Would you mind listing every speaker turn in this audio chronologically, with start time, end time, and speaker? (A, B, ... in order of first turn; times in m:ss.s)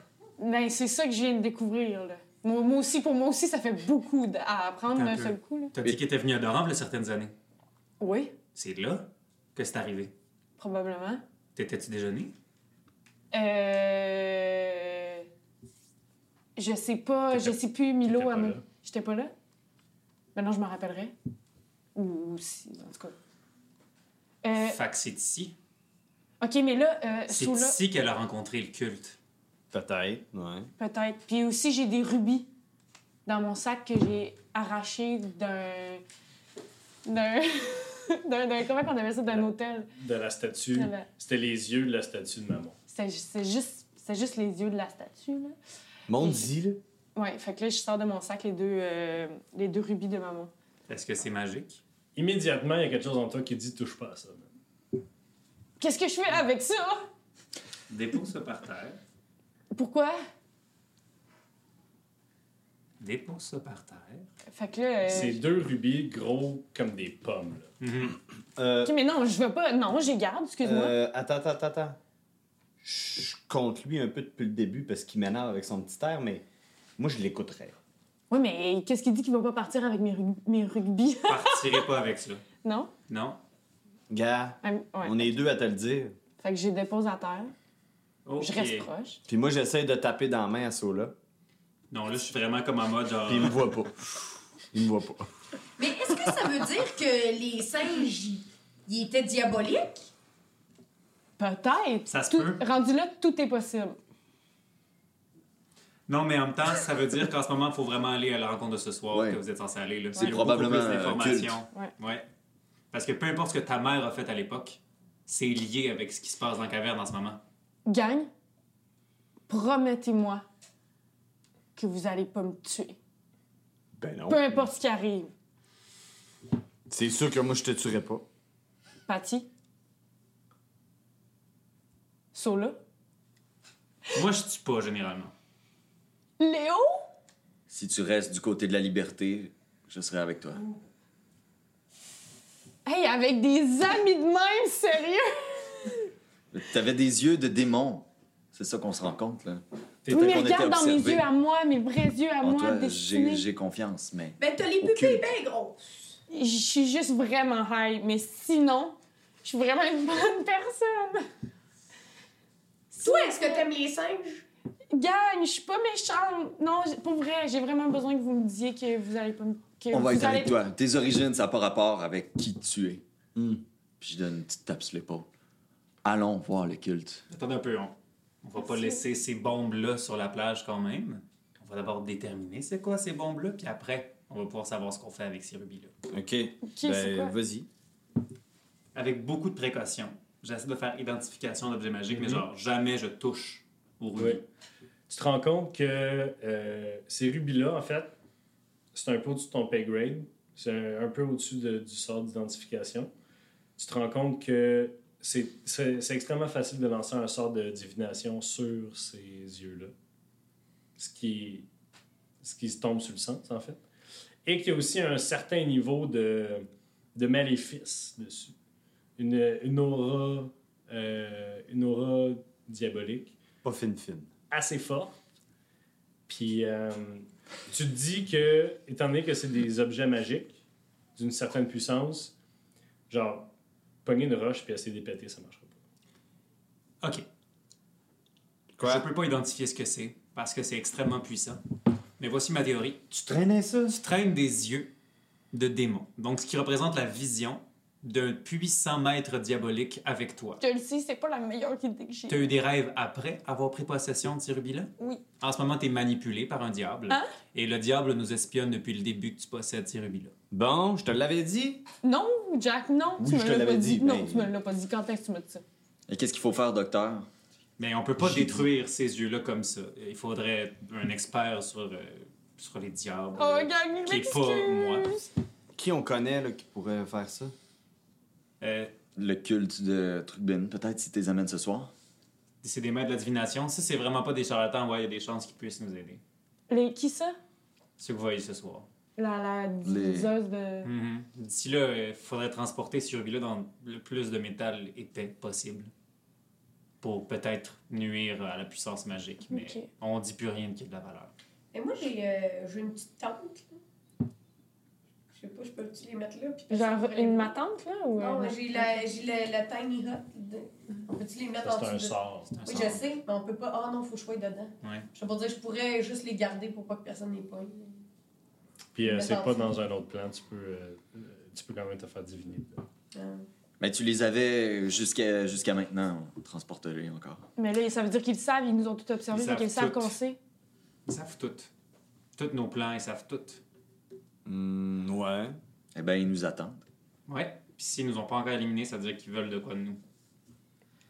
0:00.4-0:05.7 A
0:04.9-0:07.3 B
0:08.0-0:08.3 A
0:08.6-0:10.1 B
0:10.6-0:11.2 A
0:11.6-0:12.3 B
0:13.3-0:15.3 A
0:16.6-0:19.3 A
0:17.4-0:18.6 C
0:20.3-0:21.1 A
0:22.0-0:23.1 A
0:24.4-0:24.8 A
0:24.6-0:25.6 B
0:26.4-0:27.8 A
0:27.3-0:29.2 B
0:29.7-0:30.7 D
0:30.8-0:32.5 A
0:33.3-0:36.0 A
0:37.0-0:39.9 A
0:40.0-0:42.8 C
0:40.7-0:41.1 A
0:42.9-0:45.6 A
0:46.1-0:46.8 D
0:46.2-0:46.4 A
0:47.2-0:50.5 A
0:50.9-0:51.8 B
0:52.2-0:54.5 C
0:55.8-0:57.0 A
0:57.9-0:59.0 B
0:59.7-1:00.2 A
1:03.0-1:04.3 B
1:04.5-1:05.4 A
1:05.1-1:07.7 C
1:07.8-1:08.2 B
1:08.6-1:08.9 D
1:08.8-1:11.0 A
1:10.6-1:12.0 D
1:12.8-1:16.4 D
1:17.0-1:17.8 D
1:18.3-1:21.8 A
1:21.3-1:22.4 B
1:22.6-1:22.9 A
1:23.1-1:23.4 B
1:24.1-1:26.1 D
1:24.6-1:25.3 A
1:26.4-1:27.5 A
1:28.3-1:28.9 B
1:28.4-1:29.2 A
1:29.3-1:31.1 D
1:31.9-1:33.6 B
1:33.3-1:35.3 D
1:35.8-1:40.1 E
1:41.4-1:44.0 A
1:42.1-1:42.6 B
1:46.1-1:52.3 B
1:49.1-1:49.4 F
1:50.2-1:50.4 A
1:50.2-1:51.6 F
1:52.9-1:57.4 B
1:57.9-1:58.3 A
1:59.5-2:00.4 A
2:01.7-2:03.0 A
2:04.0-2:04.7 D
2:04.3-2:05.3 A
2:06.9-2:08.2 D
2:09.1-2:09.5 A
2:12.3-2:12.8 A
2:14.1-2:15.3 B
2:16.4-2:17.0 A
2:17.7-2:20.6 F
2:22.9-2:26.1 A
2:26.5-2:31.2 F
2:30.1-2:33.4 A
2:32.4-2:35.3 F
2:34.4-2:35.8 E
2:36.3-2:41.3 A
2:42.9-2:43.7 A
2:43.0-2:44.4 E
2:44.9-2:50.6 A
2:49.9-2:53.0 F
2:53.3-2:53.6 D
2:54.0-2:55.3 F
2:56.0-2:57.2 F
2:57.3-3:05.9 B
2:58.6-2:59.0 A
3:06.1-3:07.7 D
3:06.6-3:07.3 A
3:08.9-3:14.4 B
3:15.1-3:18.1 C
3:18.9-3:23.1 C
3:23.8-3:29.9 C
3:31.0-3:31.7 C
3:32.4-3:33.8 C
3:34.4-3:38.5 C
3:39.2-3:43.4 C
3:43.6-3:44.3 D
3:44.5-3:45.2 C
3:46.3-3:50.6 C
3:51.2-3:52.3 C
3:53.1-3:53.5 C
3:54.0-3:55.8 C
3:58.7-3:59.1 D
3:58.8-4:01.6 B
4:02.2-4:03.0 B
4:03.1-4:04.0 D
4:03.9-4:04.9 B
4:05.5-4:10.6 B
4:10.6-4:12.5 A
4:12.3-4:20.3 B
4:20.5-4:21.8 D
4:22.0-4:25.6 A
4:23.2-4:24.5 D
4:26.1-4:27.3 F
4:27.8-4:35.1 B
4:33.4-4:35.3 A
4:35.7-4:37.5 D
4:38.6-4:38.9 B
4:39.2-4:41.9 F
4:42.6-4:46.2 B
4:46.7-4:47.4 A
4:48.0-4:48.9 B
4:49.2-4:50.9 A
4:49.8-4:50.3 F
4:50.8-4:55.9 B
4:57.0-5:01.3 B
4:59.5-4:59.9 A
5:01.7-5:03.8 E
5:05.3-5:07.6 E
5:06.7-5:09.0 A
5:08.2-5:18.0 E
5:11.6-5:12.5 C
5:12.5-5:13.0 B
5:14.8-5:15.1 B
5:18.9-5:22.8 C
5:19.0-5:19.7 E
5:23.1-5:23.4 E
5:23.8-5:27.4 F
5:27.6-5:30.4 A
5:29.3-5:30.1 B
5:31.0-5:31.7 B
5:32.4-5:33.6 B
5:34.4-5:35.6 D
5:36.0-5:36.8 F
5:37.3-5:40.0 B